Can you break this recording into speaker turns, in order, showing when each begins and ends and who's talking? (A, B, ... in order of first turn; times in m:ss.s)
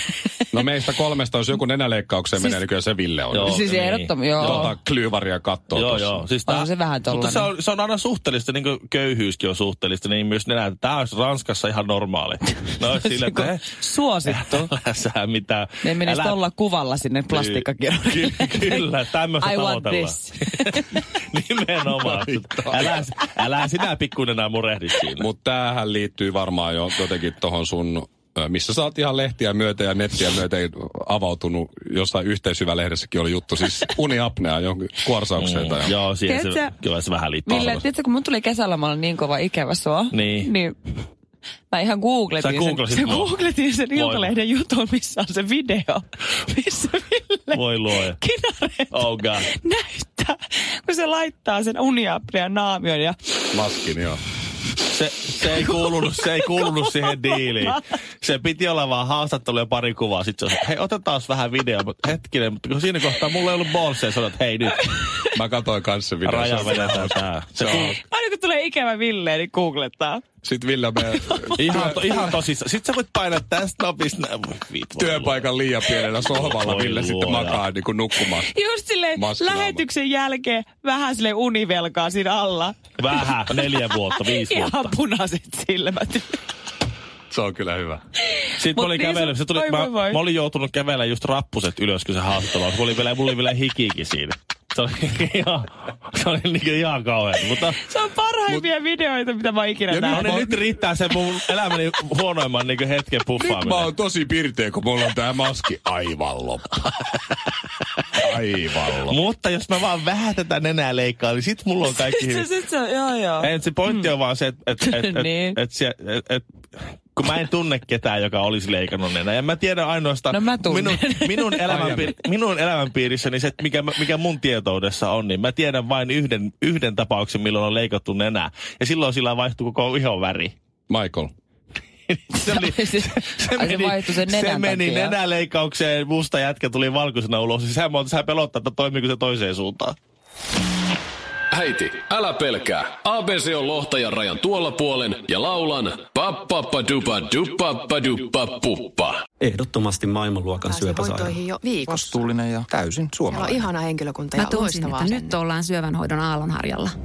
0:00.5-0:03.6 A
0:02.4-0:02.6 B
0:03.3-0:04.7 C
0:03.4-0:04.7 B
0:04.4-0:06.2 A
0:05.7-0:13.7 C
0:06.5-0:07.5 B
0:12.9-0:14.7 B
0:14.3-0:16.4 C
0:15.8-0:18.8 B
0:17.3-0:25.2 C
0:19.4-0:21.0 B
0:22.0-0:23.0 A
0:25.2-0:35.9 A
0:35.4-0:37.8 C
0:36.2-0:36.7 B
0:37.4-0:40.8 B
0:40.1-0:40.5 C
0:41.7-0:53.2 B
0:42.4-0:43.4 C
0:43.9-0:44.3 C
0:47.5-0:48.2 C
0:48.9-0:49.5 C
0:53.5-0:54.2 A
0:54.9-1:05.0 C
0:56.4-0:56.7 B
1:04.9-1:05.2 B
1:05.3-1:08.0 A
1:06.2-1:08.0 C
1:07.7-1:10.2 B
1:10.4-1:12.3 A
1:11.1-1:12.1 B
1:11.6-1:17.6 C
1:15.0-1:18.5 A
1:18.4-1:26.4 B
1:19.1-1:19.8 A
1:23.0-1:24.9 C
1:27.3-1:28.0 A
1:28.3-1:30.2 B
1:28.6-1:37.8 C
1:37.7-1:40.4 B
1:39.9-1:40.6 A
1:40.1-1:43.9 C
1:43.4-1:46.8 A
1:48.2-1:49.2 A
1:49.1-1:52.4 C
1:51.9-1:54.0 B
1:53.4-1:56.4 C
1:54.8-1:55.6 B
1:57.1-2:10.5 C
2:00.3-2:02.0 B
2:01.7-2:02.1 A
2:10.9-2:11.3 A
2:12.1-2:20.0 C
2:12.4-2:15.2 B
2:21.5-2:29.2 D
2:29.4-2:31.4 E
2:30.8-2:33.7 F
2:31.0-2:32.1 G
2:32.7-2:33.3 E
2:33.3-2:35.4 G
2:34.4-2:36.9 H